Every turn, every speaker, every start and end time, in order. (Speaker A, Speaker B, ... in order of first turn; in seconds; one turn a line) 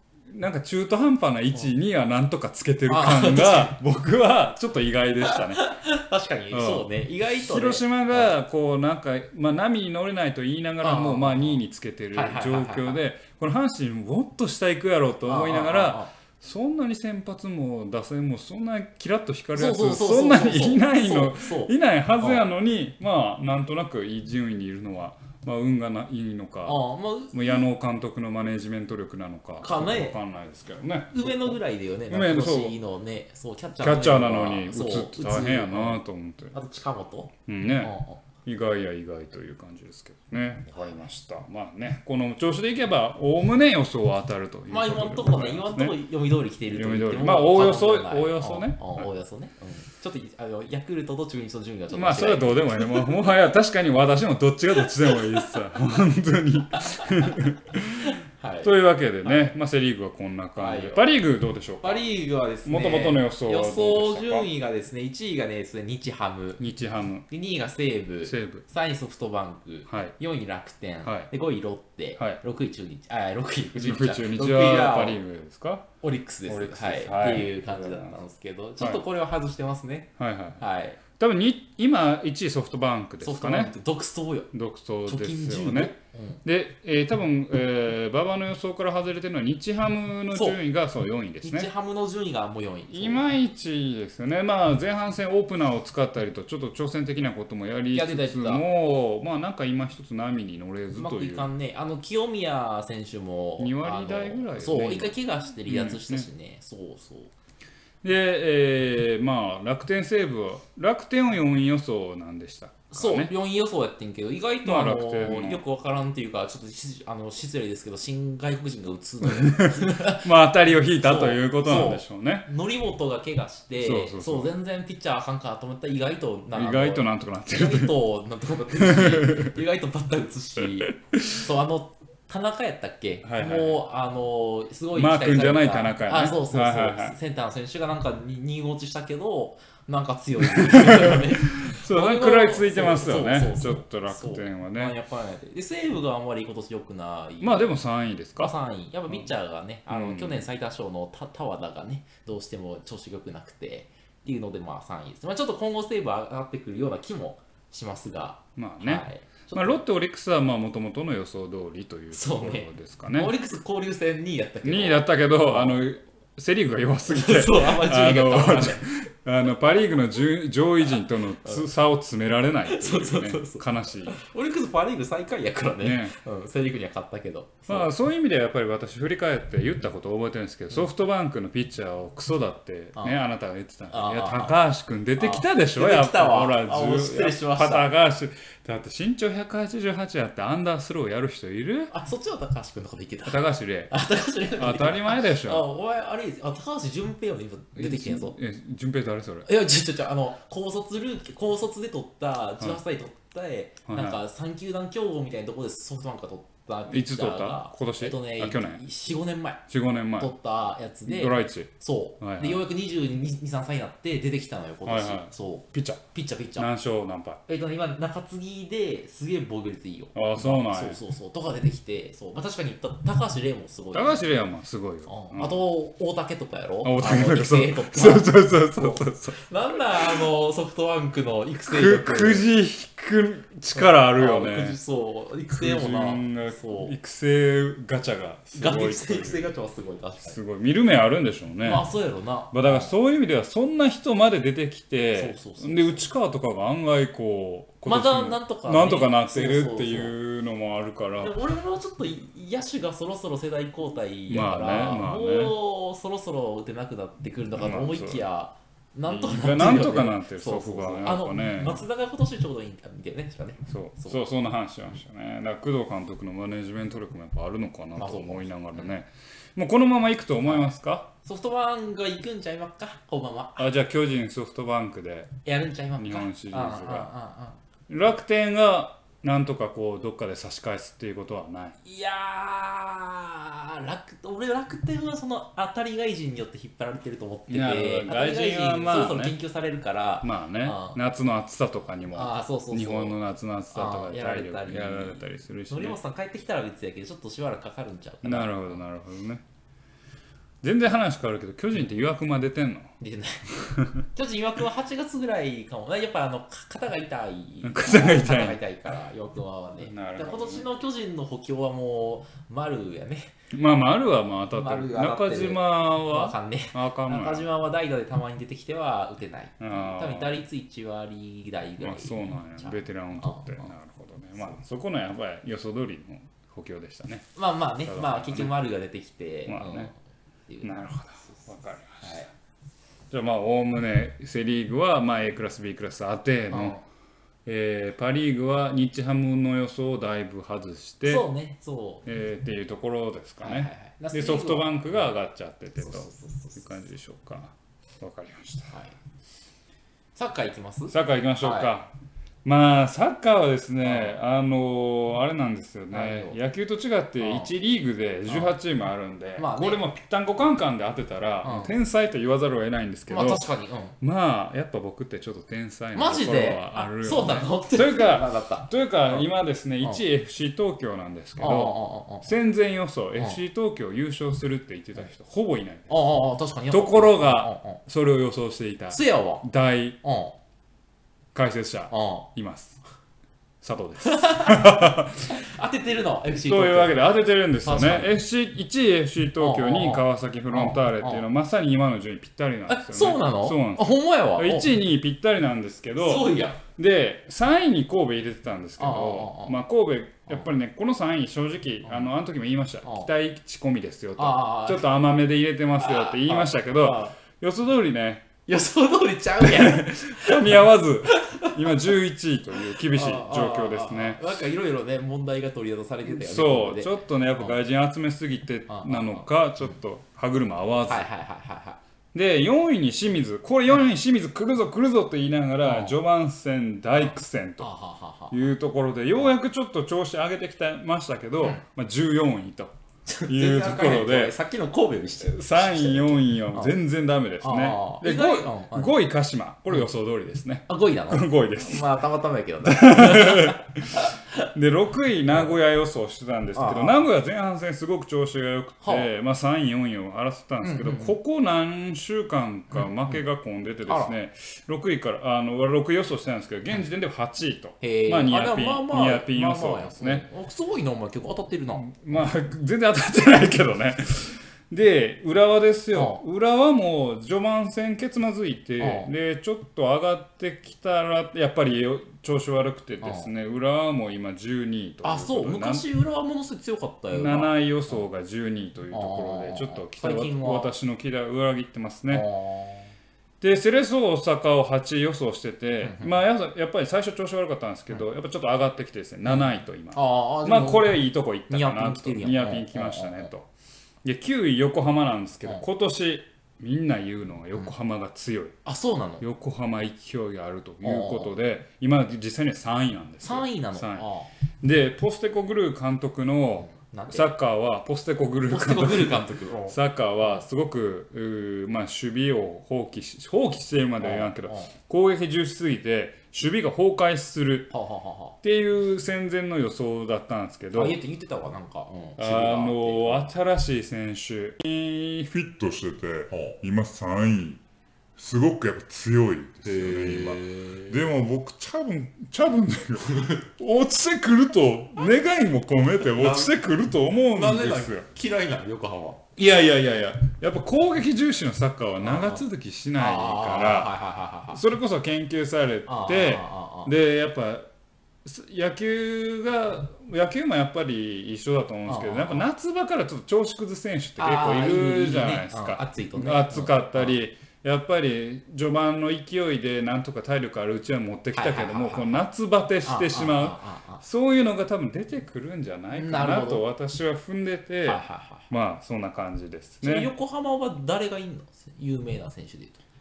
Speaker A: 0.3-5.8
Speaker B: 2.9-3.8
Speaker B: 5.3-8.3
Speaker A: 6.5-32.8
Speaker B: 10.8-11.6
Speaker B: 12.1-13.0
Speaker B: 15.2-16.1
Speaker B: 19.6-22.4
Speaker B: 26.6-27.6
Speaker B: 29.6-30.2
Speaker B: 31.1-36.0
Speaker A: 33.8-36.5
Speaker B: 36.5-38.2
Speaker A: 37.5-45.9
Speaker B: 40.7-41.0
Speaker B: 44.7-53.1
Speaker A: 46.7-49.1
Speaker A: 51.9-62.0
Speaker B: 56.7-57.4
Speaker B: 58.0-58.7
Speaker B: 59.2-59.5
Speaker B: 60.6-61.0
Speaker B: 61.8-66.6
Speaker A: 62.6-64.5
Speaker A: 66.6-67.3
Speaker B: 67.3-75.2
Speaker A: 68.2-68.6
Speaker A: 69.9-70.1
Speaker A: 71.0-71.3
Speaker A: 73.8-75.9
Speaker B: 76.0-81.0
Speaker A: 76.5-78.2
Speaker A: 78.8-79.0
Speaker A: 80.2-83.7
Speaker B: 83.2-84.5
Speaker A: 84.5-91.7
Speaker B: 85.0-86.4
Speaker B: 90.3-90.6
Speaker B: 91.4-93.2
Speaker A: 92.9-101.5
Speaker B: 97.9-98.6
Speaker B: 101.0-107.3
Speaker A: 103.6-106.3
Speaker A: 108.0-113.3
Speaker B: 112.9-120.3
Speaker A: 114.6-115.6
Speaker A: 119.2-122.5
Speaker B: 120.8-147.7
Speaker A: 123.8-124.5
Speaker A: 126.5-128.0
Speaker A: 128.8-129.6
Speaker A: 130.9-131.4
Speaker A: 133.2-133.8
Speaker A: 134.9-137.2
Speaker A: 140.4-144.9
Speaker A: 147.4-148.5
Speaker B: 148.4-159.8
Speaker A: 149.9-150.5
Speaker A: 158.6-163.3
Speaker B: 162.1-165.8
Speaker A: 164.6-174.2
Speaker B: 167.1-168.8
Speaker B: 172.7-177.9
Speaker A: 175.8-176.1
Speaker A: 177.7-191.9
Speaker B: 183.9-184.6
Speaker B: 185.2-187.9
Speaker B: 191.9-198.4
Speaker A: 193.2-193.9
Speaker A: 194.5-195.6
Speaker A: 197.8-199.5
Speaker B: 199.4-209.6
Speaker A: 203.9-204.2
Speaker A: 206.9-208.8
Speaker A: 209.7-210.3
Speaker B: 210.2-216.7
Speaker A: 211.1-212.6
Speaker A: 214.8-216.0
Speaker A: 216.6-217.4
Speaker B: 217.5-224.3
Speaker A: 220.1-221.0
Speaker A: 223.9-225.6
Speaker B: 225.1-232.5
Speaker A: 226.8-230.3
Speaker A: 231.7-234.8
Speaker B: 233.7-236.9
Speaker A: 235.5-239.5
Speaker B: 238.5-240.4
Speaker A: 240.2-241.8
Speaker B: 241.6-242.9
Speaker A: 242.5-251.4
Speaker B: 245.2-246.1
Speaker B: 247.8-250.1
Speaker B: 251.2-264.2
Speaker A: 254.3-255.5
Speaker A: 257.5-258.2
Speaker A: 259.1-261.8
Speaker A: 263.7-271.1
Speaker B: 267.9-268.9
Speaker B: 271.2-273.7
Speaker A: 273.6-275.3
Speaker B: 275.4-277.6
Speaker A: 275.9-277.1
Speaker A: 277.9-281.8
Speaker B: 281.8-291.0
Speaker A: 287.5-289.4
Speaker A: 290.2-296.0
Speaker B: 292.1-293.2
Speaker B: 293.7-298.8
Speaker A: 298.2-299.4
Speaker A: 300.6-302.9
Speaker B: 303.0-313.3
Speaker A: 307.6-308.6
Speaker A: 309.8-310.6
Speaker A: 313.5-317.5
Speaker B: 314.5-323.7
Speaker A: 319.6-320.4
Speaker A: 321.8-327.3
Speaker B: 327.3-329.9
Speaker A: 327.8-328.5
Speaker A: 329.5-329.9
Speaker B: 330.5-331.5
Speaker A: 330.6-332.3
Speaker B: 332.0-332.3
Speaker A: 333.1-336.8
Speaker B: 336.5-336.8
Speaker A: 337.4-341.3
Speaker B: 341.1-342.0
Speaker A: 342.0-348.7
Speaker B: 343.4-345.0
Speaker B: 345.8-346.6
Speaker B: 348.7-348.9
Speaker B: 350.1-351.7
Speaker A: 350.9-351.9
Speaker A: 352.4-363.5
Speaker B: 353.8-354.1
Speaker B: 355.9-356.4
Speaker B: 357.2-357.5
Speaker B: 358.3-358.5
Speaker B: 359.4-359.8
Speaker B: 361.4-361.7
Speaker B: 363.1-363.9
Speaker A: 364.0-376.0
Speaker B: 365.9-369.3
Speaker B: 371.4-372.3
Speaker B: 375.9-377.8
Speaker A: 376.7-380.0
Speaker B: 378.9-379.4
Speaker B: 380.0-380.4
Speaker A: 381.3-382.8
Speaker B: 381.9-382.3
Speaker A: 383.6-385.3
Speaker B: 384.0-387.1
Speaker A: 386.4-408.3
Speaker B: 387.6-388.1
Speaker B: 389.4-391.2
Speaker B: 392.7-394.7
Speaker B: 396.0-396.6
Speaker B: 398.8-399.6
Speaker B: 402.8-403.1
Speaker B: 404.2-404.9
Speaker B: 405.8-407.1
Speaker B: 408.5-411.5
Speaker A: 409.4-414.2
Speaker B: 412.8-417.5
Speaker A: 416.0-421.1
Speaker B: 418.7-419.2
Speaker B: 420.9-421.8
Speaker A: 422.1-427.7
Speaker B: 425.6-425.9
Speaker B: 427.6-428.4
Speaker A: 428.3-432.7
Speaker B: 433.1-436.7
Speaker A: 433.3-434.3
Speaker A: 435.2-442.0
Speaker B: 437.4-438.9
Speaker B: 440.7-444.2
Speaker A: 442.6-460.2
Speaker B: 446.5-447.0
Speaker B: 448.8-449.1
Speaker B: 450.6-451.1
Speaker B: 453.9-454.1
Speaker B: 457.8-461.9
Speaker A: 461.8-475.9
Speaker B: 465.9-466.2
Speaker B: 468.8-469.1
Speaker B: 473.0-473.3
Speaker B: 475.0-478.0
Speaker A: 477.1-482.3
Speaker B: 478.9-480.7
Speaker B: 482.1-482.9
Speaker A: 483.4-493.5
Speaker B: 485.8-486.1
Speaker B: 489.2-490.9
Speaker B: 491.5-493.3
Speaker A: 494.0-498.6
Speaker B: 498.6-499.2
Speaker A: 499.2-504.1
Speaker B: 500.8-501.3
Speaker B: 503.2-504.3
Speaker A: 504.6-517.7
Speaker B: 506.6-507.3
Speaker B: 508.5-509.8
Speaker B: 514.0-514.7
Speaker B: 517.7-518.4
Speaker A: 518.4-521.0
Speaker B: 520.7-523.3
Speaker A: 522.2-525.6
Speaker C: 525.5-527.6
Speaker C: 528.2-535.0
Speaker A: 529.6-531.0
Speaker B: 530.3-530.9
Speaker A: 533.6-538.1
Speaker C: 536.0-536.4
Speaker B: 536.1-536.6
Speaker B: 537.2-539.3
Speaker A: 539.4-543.9
Speaker B: 542.0-542.4
Speaker B: 543.0-544.6
Speaker A: 544.5-547.7
Speaker B: 545.9-546.9
Speaker A: 548.2-570.1
Speaker B: 551.9-552.5
Speaker B: 554.2-557.1
Speaker B: 561.3-562.2
Speaker B: 562.8-564.0
Speaker B: 565.9-566.6
Speaker B: 567.8-568.5
Speaker B: 569.8-572.8